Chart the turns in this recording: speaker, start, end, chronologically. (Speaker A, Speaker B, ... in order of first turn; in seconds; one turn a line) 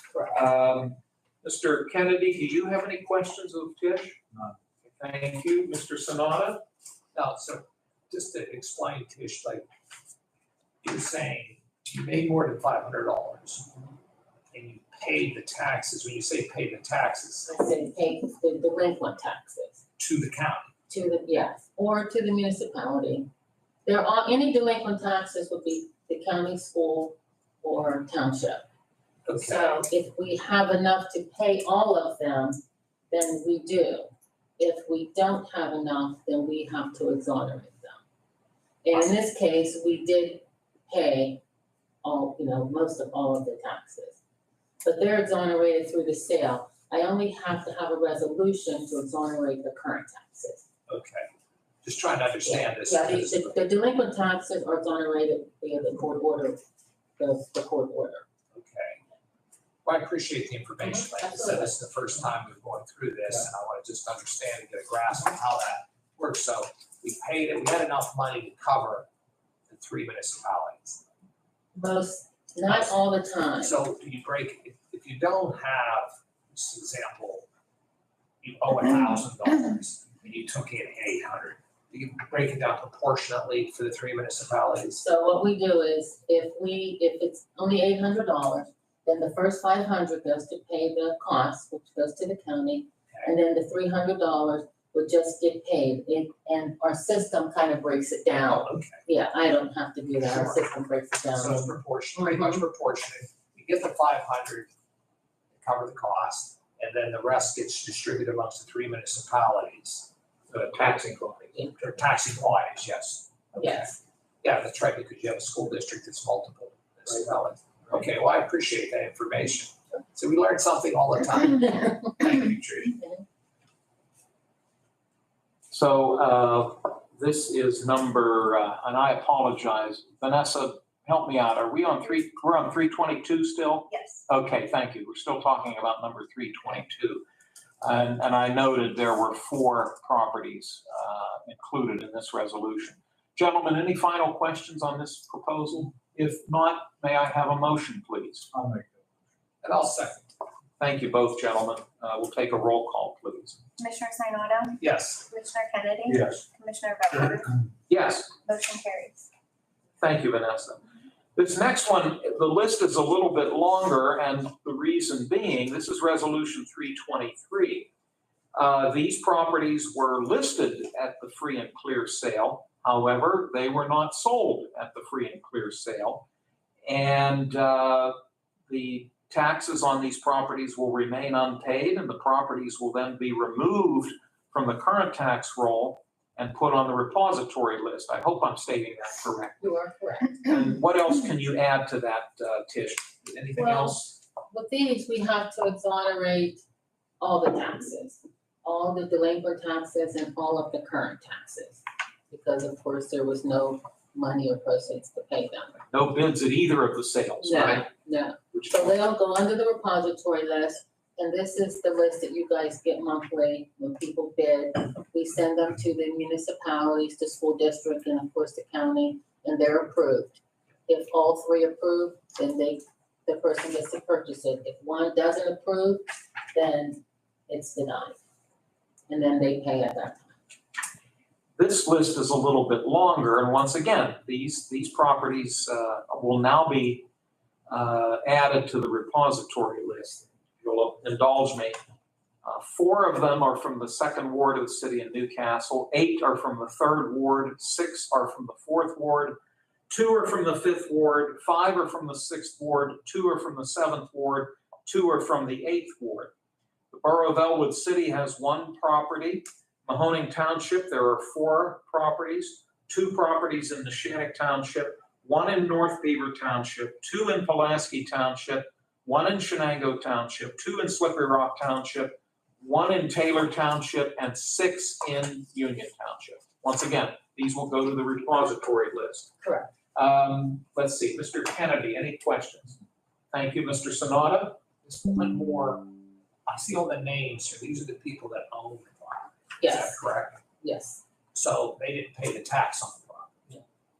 Speaker A: 0.3-4.2
Speaker A: 4.9-6.6
Speaker B: 7.1-9.7
Speaker B: 10.8-13.8
Speaker B: 14.5-17.5
Speaker C: 17.4-19.8
Speaker B: 20.0-20.7
Speaker C: 20.9-23.3
Speaker C: 23.9-28.6
Speaker B: 29.2-29.8
Speaker C: 29.4-38.0
Speaker C: 38.8-41.4
Speaker C: 42.0-44.2
Speaker C: 44.8-50.7
Speaker B: 50.9-51.3
Speaker B: 51.8-53.6
Speaker C: 52.5-56.6
Speaker C: 57.2-58.2
Speaker B: 58.5-59.0
Speaker B: 59.8-69.1
Speaker C: 61.0-61.7
Speaker B: 69.7-71.0
Speaker C: 71.8-73.8
Speaker B: 72.7-73.0
Speaker B: 73.6-77.5
Speaker B: 78.4-85.0
Speaker C: 85.0-102.6
Speaker B: 98.4-99.0
Speaker B: 100.3-100.6
Speaker B: 101.3-104.7
Speaker B: 105.6-110.1
Speaker A: 110.5-111.6
Speaker B: 111.8-122.2
Speaker C: 113.6-113.9
Speaker A: 122.2-123.0
Speaker A: 125.7-137.2
Speaker D: 133.9-134.2
Speaker A: 137.8-148.5
Speaker B: 149.6-150.3
Speaker A: 150.8-153.6
Speaker D: 153.8-157.6
Speaker B: 154.8-155.3
Speaker A: 157.9-158.3
Speaker D: 158.4-159.3
Speaker A: 160.0-160.8
Speaker A: 161.3-167.9
Speaker A: 168.6-176.2
Speaker A: 176.8-178.2
Speaker A: 178.7-189.7
Speaker C: 189.6-190.5
Speaker A: 190.4-194.2
Speaker C: 193.6-196.6
Speaker C: 197.2-205.8
Speaker A: 205.9-207.9
Speaker C: 207.4-228.2
Speaker C: 229.1-230.4
Speaker A: 231.6-237.1
Speaker A: 237.7-241.8
Speaker A: 242.4-249.3
Speaker A: 249.9-256.3
Speaker A: 256.9-279.3
Speaker C: 279.4-279.7
Speaker A: 279.9-282.8
Speaker A: 283.3-284.6
Speaker B: 284.9-285.8
Speaker B: 286.4-290.4
Speaker C: 289.6-290.0
Speaker C: 290.6-291.0
Speaker B: 291.3-293.4